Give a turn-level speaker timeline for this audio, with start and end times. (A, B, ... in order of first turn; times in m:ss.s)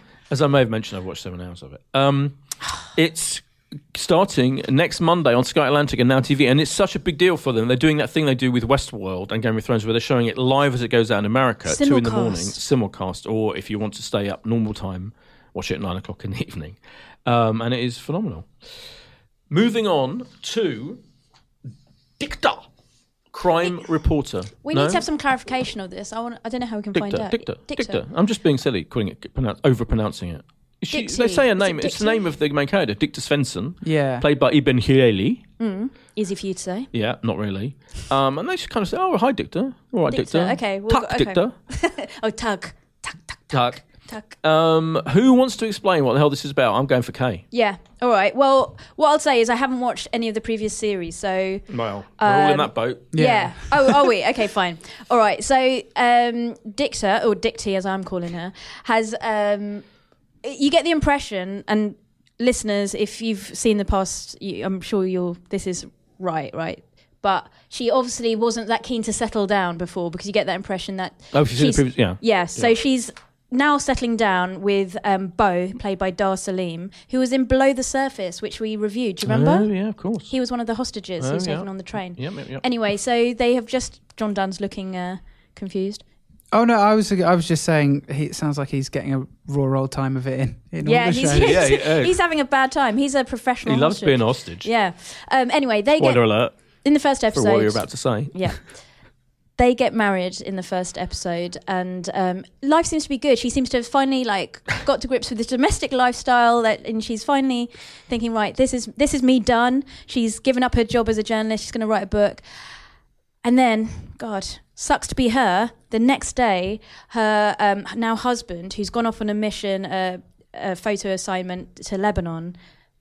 0:00.3-0:18.5 A
0:11.6-0:12.6 B
0:19.5-0:21.0 A
0:22.2-0:22.7 A
0:23.3-0:25.0 A
0:24.6-0:28.0 B
0:26.9-0:35.4 A
0:30.9-0:32.2 B
0:33.8-0:34.2 C
0:35.6-0:36.9 B
0:36.9-0:41.5 A
0:40.1-0:44.4 B
0:43.5-0:43.8 A
0:44.4-0:47.4 A
0:47.5-0:51.7 B
0:51.7-0:53.1 A
0:52.2-0:59.8 B
0:53.1-0:54.0 C
1:00.4-1:19.7 B
1:11.3-1:12.7 A
1:19.2-1:20.3 A
1:20.3-1:26.0 B
1:21.2-1:22.6 A
1:26.5-1:31.7 C
1:30.8-1:36.3 B
1:31.3-1:32.2 A
1:33.6-1:34.7 A
1:36.0-1:36.5 A
1:36.8-1:38.6 B
1:37.3-1:38.3 A
1:39.6-1:52.4 B
1:53.4-2:02.5 B